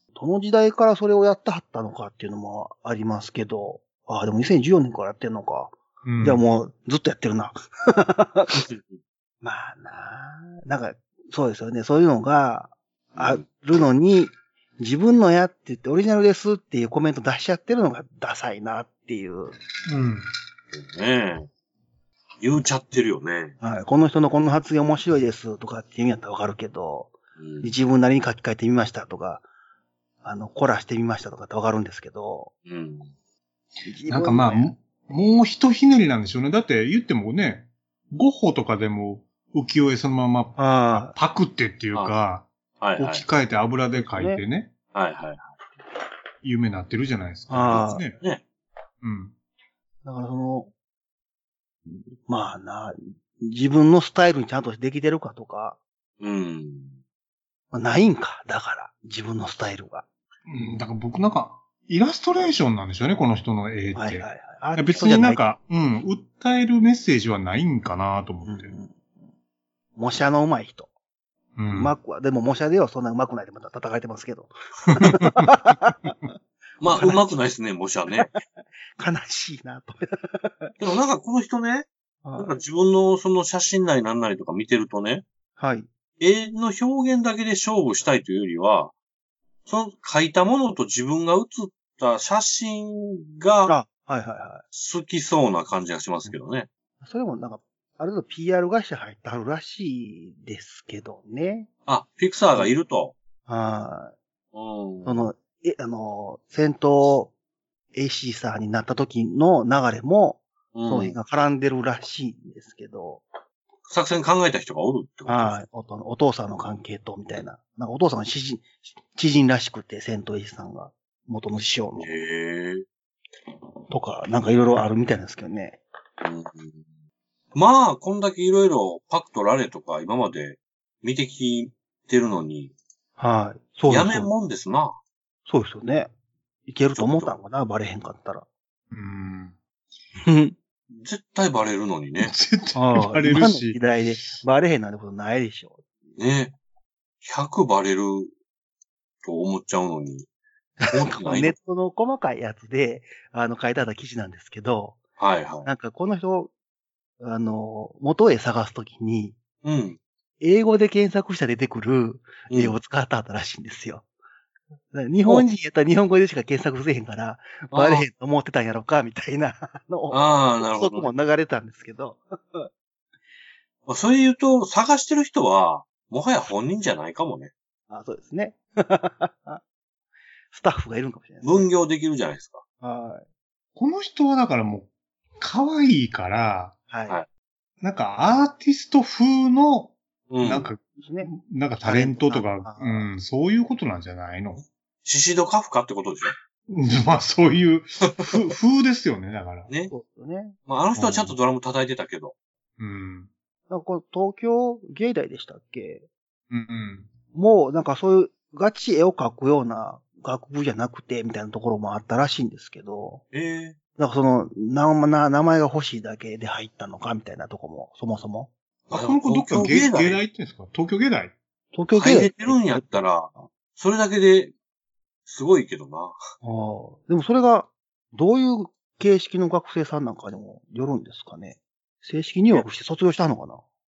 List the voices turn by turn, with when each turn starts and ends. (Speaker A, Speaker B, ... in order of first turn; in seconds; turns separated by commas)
Speaker A: 0.1-8.7, Speaker B: 6.0-6.4, Speaker C: 8.6-8.8, Speaker A: 9.4-19.6, Speaker C: 13.2-13.4, Speaker B: 19.9-20.2, Speaker C: 20.7-21.5, Speaker C: 22.4-23.6, Speaker A: 23.6-29.4, Speaker C: 27.4-27.8, Speaker A: 30.2-32.5, Speaker C: 32.7-33.1, Speaker A: 33.9-34.8, Speaker B: 34.1-44.7, Speaker A: 40.6-41.2, Speaker C: 42.8-43.2, Speaker A: 43.9-44.4, Speaker C: 44.9-45.5, Speaker B: 46.4-48.2, Speaker A: 47.5-48.1, Speaker B: 49.0-49.3, Speaker A: 50.0-50.7, Speaker A: 51.9-55.8, Speaker C: 56.2-57.0, Speaker A: 57.7-60.0, Speaker B: 60.5-68.7, Speaker A: 64.0-65.5, Speaker A: 68.4-69.0, Speaker A: 70.0-70.9, Speaker B: 71.6-71.9, Speaker A: 71.7-76.1, Speaker B: 75.0-76.1, Speaker C: 76.8-78.3, Speaker A: 76.9-77.3, Speaker A: 79.0-80.7, Speaker C: 80.8-85.2, Speaker A: 82.2-82.6, Speaker A: 85.6-85.9, Speaker C: 86.2-88.9, Speaker C: 89.7-93.7, Speaker A: 93.7-94.6, Speaker C: 94.7-96.7, Speaker A: 97.0-101.7, Speaker C: 101.9-103.2, Speaker A: 103.5-104.2, Speaker C: 104.5-105.3, Speaker A: 105.0-107.3, Speaker A: 107.9-113.2, Speaker C: 110.7-111.2, Speaker C: 113.9-115.6, Speaker A: 115.3-122.1, Speaker C: 122.0-122.8, Speaker A: 123.9-125.8, Speaker C: 126.2-126.8, Speaker C: 127.5-132.7, Speaker A: 133.2-134.3, Speaker C: 133.9-135.0, Speaker A: 135.5-136.1, Speaker A: 136.7-138.5, Speaker C: 136.9-137.4, Speaker B: 138.9-139.6, Speaker A: 140.2-140.6, Speaker C: 140.9-142.3, Speaker B: 142.2-144.4, Speaker A: 142.8-145.8, Speaker C: 146.2-146.6, Speaker C: 147.2-148.3, Speaker C: 149.2-150.3, Speaker A: 150.8-155.0, Speaker C: 150.9-151.6, Speaker C: 155.2-155.7, Speaker A: 155.6-156.5, Speaker A: 157.2-159.4, Speaker C: 159.6-160.0, Speaker A: 160.4-164.1, Speaker C: 162.5-162.8, Speaker A: 164.9-172.7, Speaker C: 167.7-168.1, Speaker C: 170.1-171.1, Speaker C: 173.9-177.5, Speaker A: 177.9-179.6, Speaker A: 180.5-181.7, Speaker C: 181.4-182.6, Speaker A: 182.8-183.2, Speaker B: 183.8-186.8, Speaker A: 186.9-187.2, Speaker B: 187.8-194.6, Speaker C: 190.3-190.7, Speaker A: 191.0-193.1, Speaker C: 194.6-196.3, Speaker B: 196.7-199.7, Speaker A: 199.9-200.6, Speaker C: 200.7-202.3, Speaker B: 201.0-201.3, Speaker B: 202.8-203.3, Speaker A: 203.7-206.1, Speaker B: 206.5-207.1, Speaker A: 207.3-213.2, Speaker C: 213.3-213.8, Speaker A: 214.0-218.5, Speaker C: 218.9-220.2, Speaker B: 218.9-221.3, Speaker A: 221.7-223.5, Speaker C: 221.9-224.5, Speaker C: 225.3-226.2, Speaker A: 226.4-233.6